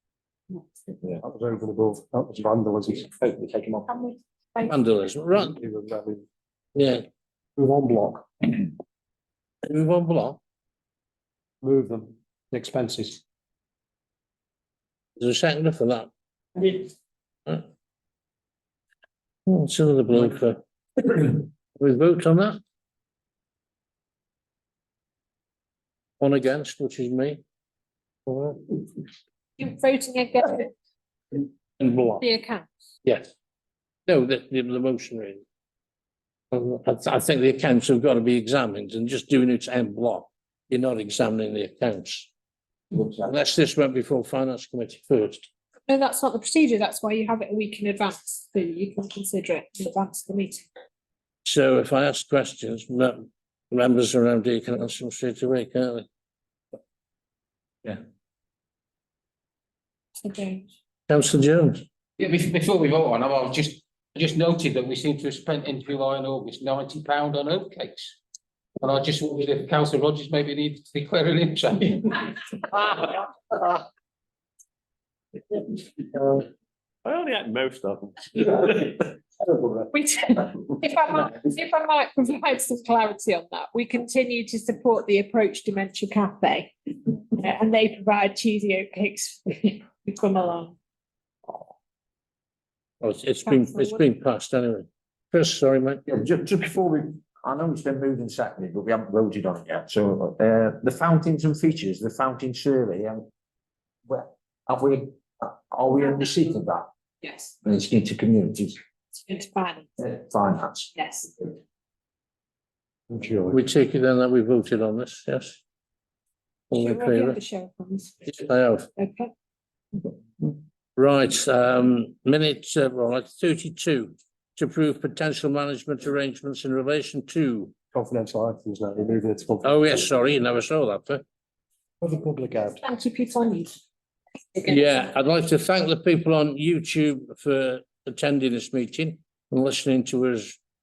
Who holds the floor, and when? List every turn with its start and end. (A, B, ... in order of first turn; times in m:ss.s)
0:01.2-0:03.7 A
0:04.6-0:05.6 B
0:05.5-0:06.2 A
0:06.8-0:07.0 B
0:07.6-0:08.6 A
0:09.6-0:10.4 B
0:11.6-0:13.2 A
0:15.2-0:16.1 B
0:19.4-0:22.6 B
0:26.2-0:27.4 B
0:28.3-0:28.6 B
0:29.6-0:30.7 C
0:31.8-0:32.2 B
0:32.2-0:32.7 C
0:33.0-0:33.3 B
0:34.1-0:35.4 B
0:36.5-0:42.3 B
0:43.0-0:43.3 D
0:43.2-0:45.5 B
0:45.9-0:50.6 C
0:51.4-0:56.1 B
1:00.2-1:00.7 C
1:01.1-1:01.8 B
1:02.2-1:08.2 E
1:08.8-1:12.3 E
1:17.0-1:19.1 F
1:19.9-1:30.7 C
1:33.0-1:36.0 B
1:33.4-1:34.0 C
1:36.0-1:43.2 D
1:44.1-1:46.8 D
1:47.6-1:48.8 D
1:49.2-1:49.9 C
1:50.0-1:50.9 D
1:51.0-1:51.3 C
1:53.1-1:53.6 A
1:53.5-1:55.6 B
1:56.7-1:57.4 B
1:56.8-1:58.2 C
1:58.2-1:58.9 B
1:59.0-1:59.3 C
2:00.4-2:07.7 B
2:07.9-2:09.8 A
2:09.6-2:11.2 B
2:12.0-2:12.8 A
2:12.8-2:13.8 C
2:14.6-2:20.6 B